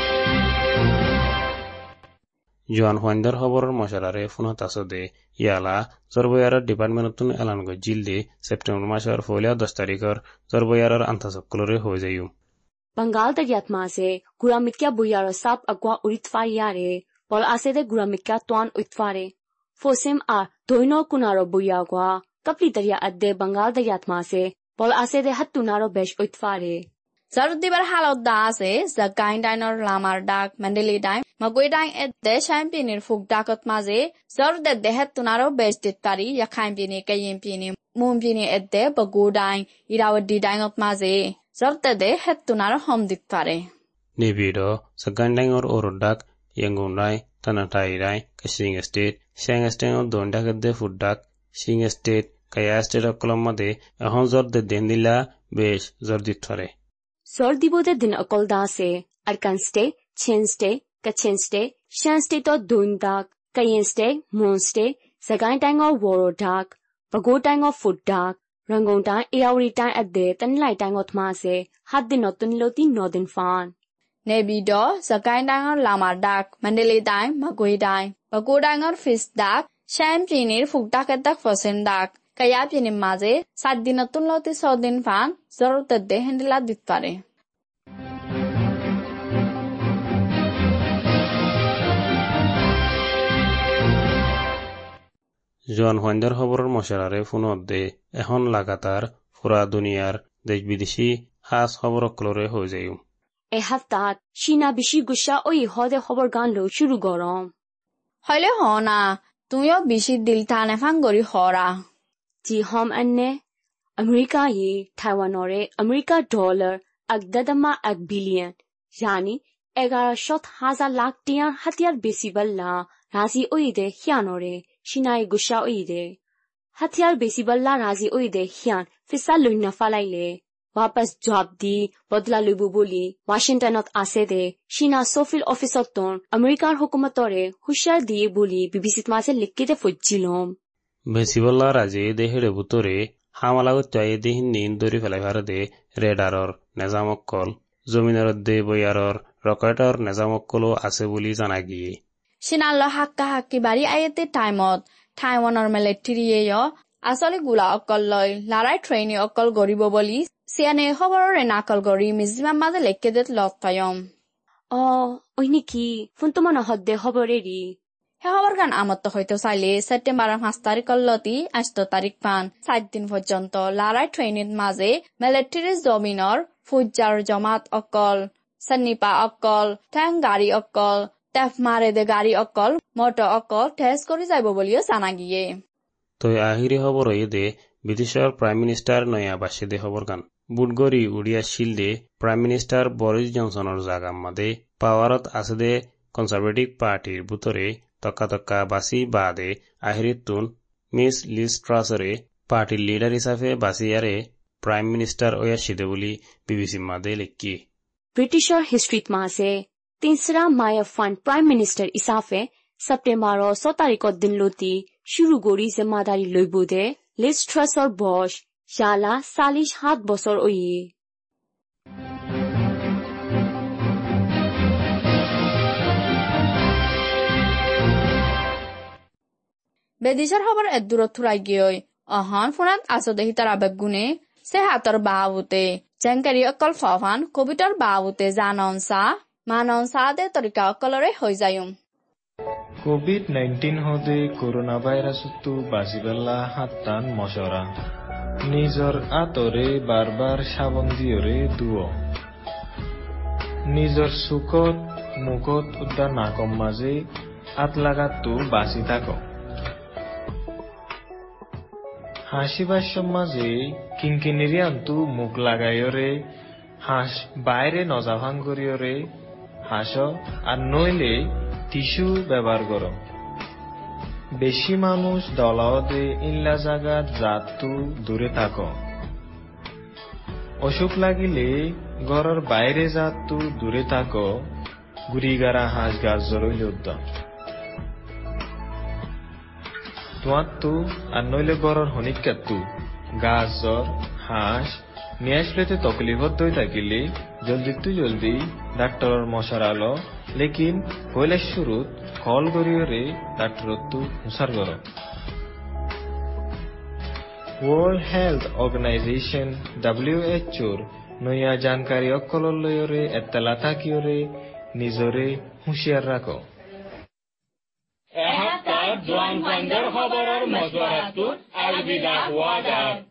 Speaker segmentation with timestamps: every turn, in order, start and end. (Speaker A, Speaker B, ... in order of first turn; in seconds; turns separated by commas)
Speaker A: 2.7-12.3, Speaker B: 13.0-26.8, Speaker C: 27.3-43.6, Speaker A: 44.2-56.7, Speaker B: 57.3-73.7, Speaker C: 74.2-87.2, Speaker A: 95.7-103.0, Speaker B: 103.5-107.5, Speaker C: 108.2-111.7, Speaker B: 112.4-113.3, Speaker B: 114.0-126.1, Speaker B: 126.8-140.5, Speaker A: 141.1-152.0, Speaker C: 152.4-164.0, Speaker B: 164.7-167.7, Speaker C: 168.2-185.4, Speaker A: 186.2-207.6, Speaker B: 208.1-220.9, Speaker C: 230.0-241.7, Speaker D: 242.8-247.7, Speaker D: 248.5-251.9, Speaker D: 253.7-257.0, Speaker D: 257.6-259.2, Speaker D: 262.3-266.2, Speaker D: 266.8-269.1, Speaker D: 269.7-272.9, Speaker D: 274.4-278.7, Speaker D: 280.6-284.2, Speaker D: 285.1-287.0, Speaker D: 290.2-292.6, Speaker D: 293.2-304.8, Speaker D: 307.6-316.4, Speaker E: 318.5-323.0